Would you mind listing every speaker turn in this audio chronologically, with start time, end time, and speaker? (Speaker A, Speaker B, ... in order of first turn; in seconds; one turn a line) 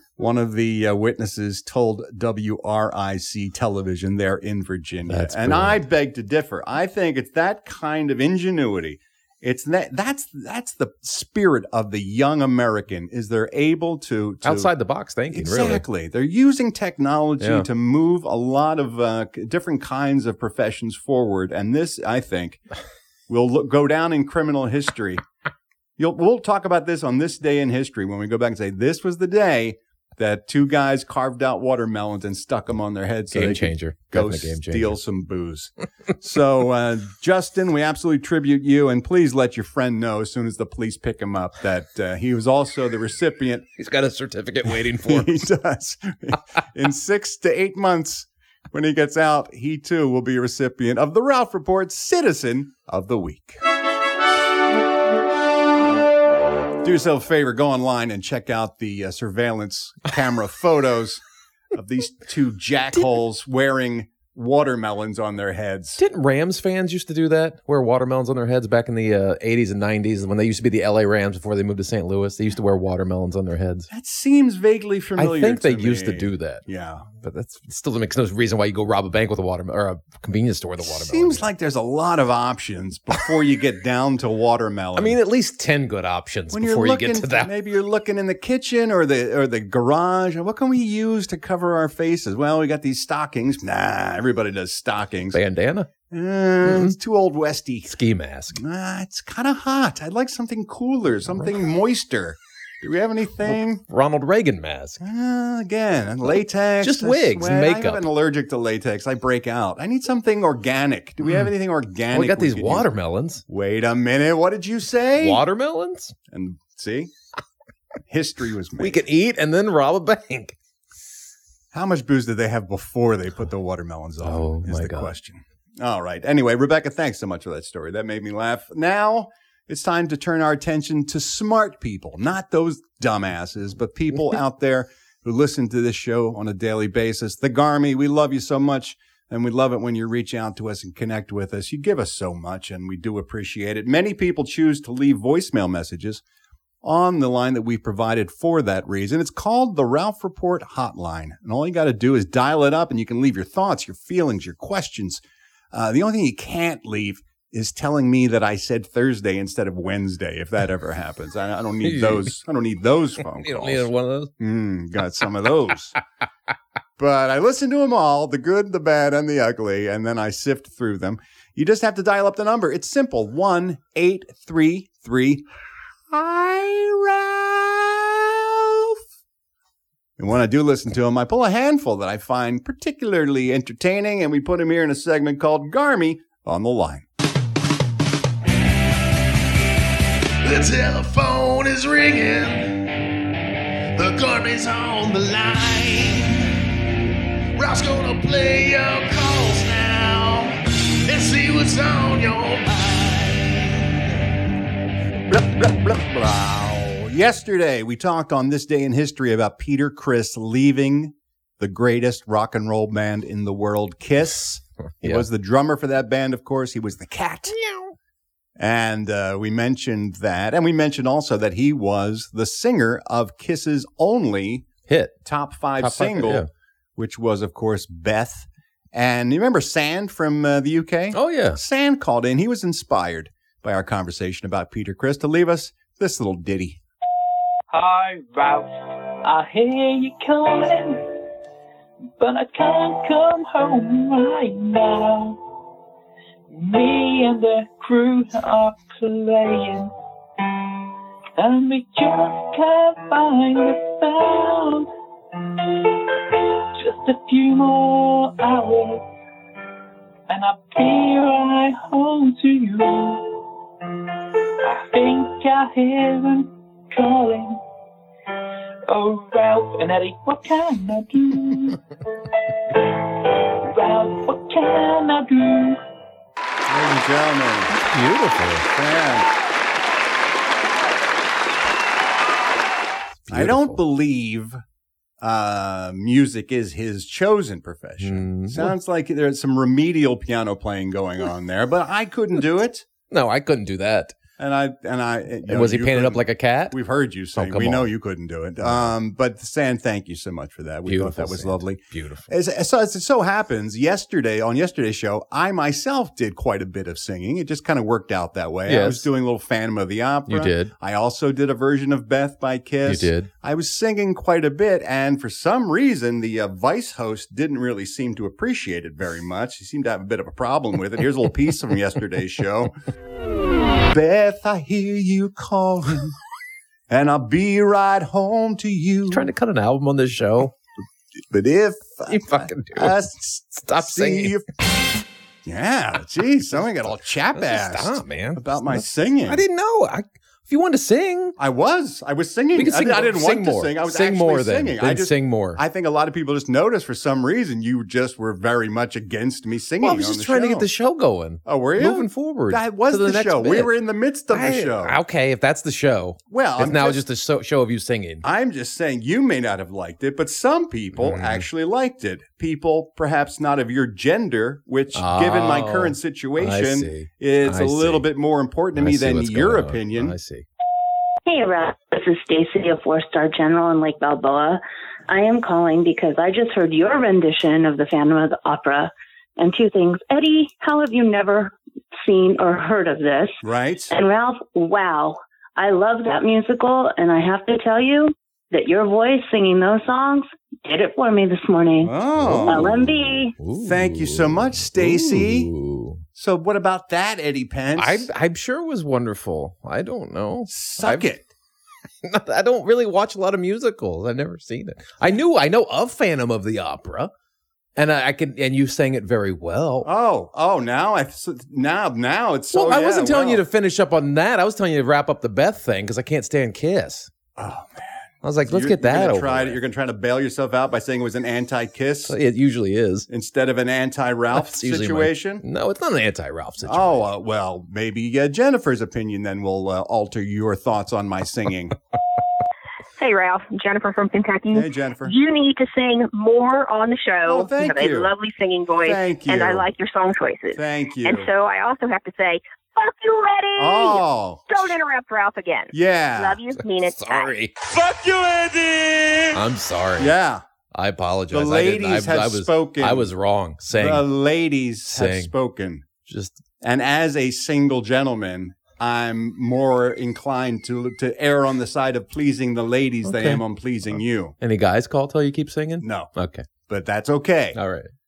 Speaker A: 0.2-14.7
Speaker B: 5.1-5.8
Speaker B: 14.4-15.8
Speaker A: 15.3-22.6
Speaker B: 17.4-17.7
Speaker A: 23.3-25.2
Speaker A: 26.0-43.7
Speaker B: 33.3-35.0
Speaker B: 43.8-45.4
Speaker A: 45.0-53.6
Speaker A: 56.8-61.2
Speaker A: 61.7-66.0
Speaker B: 66.0-73.9
Speaker A: 73.9-77.1
Speaker B: 75.2-76.6
Speaker B: 77.2-81.5
Speaker A: 80.8-85.2
Speaker B: 85.0-87.5
Speaker A: 86.5-95.4
Speaker B: 95.3-95.9
Speaker A: 96.1-97.9
Speaker B: 96.6-97.0
Speaker B: 97.8-98.6
Speaker A: 98.5-103.8
Speaker B: 103.5-105.0
Speaker A: 105.0-112.9
Speaker B: 106.8-108.1
Speaker B: 111.2-111.5
Speaker B: 112.1-113.4
Speaker A: 113.5-115.4
Speaker B: 115.2-116.1
Speaker A: 116.3-117.1
Speaker A: 118.1-119.0
Speaker B: 118.8-120.5
Speaker A: 121.7-146.2
Speaker B: 124.2-125.1
Speaker A: 146.8-166.0
Speaker B: 161.8-162.3
Speaker B: 163.3-164.3
Speaker A: 167.0-175.4
Speaker A: 176.1-179.0
Speaker A: 180.2-187.1
Speaker C: 190.4-192.7
Speaker C: 193.9-196.5
Speaker C: 197.6-200.5
Speaker C: 201.1-204.0
Speaker A: 205.3-217.5
Speaker B: 215.0-215.3
Speaker B: 217.5-217.9
Speaker A: 218.6-224.7
Speaker B: 224.9-225.2
Speaker A: 225.2-236.8
Speaker B: 225.8-226.5
Speaker B: 231.1-231.6
Speaker D: 237.7-241.1
Speaker D: 242.2-245.4
Speaker D: 246.5-249.9
Speaker D: 251.4-254.9
Speaker D: 255.5-259.1
Speaker D: 260.3-263.4
Speaker D: 264.6-267.6
Speaker D: 268.9-271.8
Speaker D: 272.7-275.8
Speaker A: 276.7-277.7
Speaker B: 277.7-278.6
Speaker A: 278.7-279.3
Speaker B: 283.2-283.8
Speaker A: 283.3-284.6
Speaker A: 285.2-292.8
Speaker B: 288.0-288.7
Speaker B: 293.1-294.2
Speaker A: 294.4-322.7
Speaker B: 295.4-296.8
Speaker B: 297.3-297.9
Speaker B: 298.6-298.9
Speaker B: 300.9-302.3
Speaker B: 308.6-309.1
Speaker B: 310.3-310.7
Speaker B: 312.9-313.3
Speaker A: 323.9-326.1
Speaker A: 326.9-329.3
Speaker B: 329.1-330.5
Speaker A: 331.3-334.4
Speaker B: 332.1-333.0
Speaker B: 333.5-334.4
Speaker A: 335.4-339.4
Speaker B: 337.3-341.4
Speaker A: 341.4-350.7
Speaker B: 342.5-345.6
Speaker B: 349.8-353.7
Speaker A: 351.4-355.0
Speaker B: 354.3-358.2
Speaker A: 356.3-357.0
Speaker A: 358.2-370.1
Speaker B: 360.9-361.4
Speaker B: 364.9-368.1
Speaker B: 368.8-370.4
Speaker E: 371.2-383.4
Speaker A: 383.4-383.9
Speaker E: 383.9-391.9
Speaker A: 391.8-392.7
Speaker B: 392.1-396.0
Speaker E: 392.4-393.3
Speaker A: 393.6-395.5
Speaker A: 396.1-398.1
Speaker B: 397.8-401.1
Speaker A: 400.5-401.3
Speaker B: 402.0-407.1
Speaker B: 407.8-409.9
Speaker A: 409.8-413.4
Speaker B: 412.5-417.1
Speaker A: 417.4-422.1
Speaker B: 418.2-419.6
Speaker B: 422.1-423.1
Speaker A: 423.1-425.4
Speaker B: 424.3-427.1
Speaker A: 426.6-431.7
Speaker F: 433.0-447.3
Speaker A: 434.5-435.1
Speaker A: 437.2-438.1
Speaker A: 438.8-439.7
Speaker A: 440.5-441.3
Speaker A: 443.6-444.6
Speaker A: 445.7-446.4
Speaker B: 446.8-447.6
Speaker A: 447.7-449.3
Speaker B: 449.3-450.1
Speaker A: 450.0-450.4
Speaker B: 450.7-454.1
Speaker A: 451.3-453.1
Speaker A: 453.7-455.9
Speaker B: 454.9-455.3
Speaker B: 456.1-456.4
Speaker A: 456.6-464.3
Speaker B: 463.0-463.4
Speaker B: 464.4-466.5
Speaker A: 465.8-466.1
Speaker A: 466.7-467.6
Speaker B: 467.5-467.9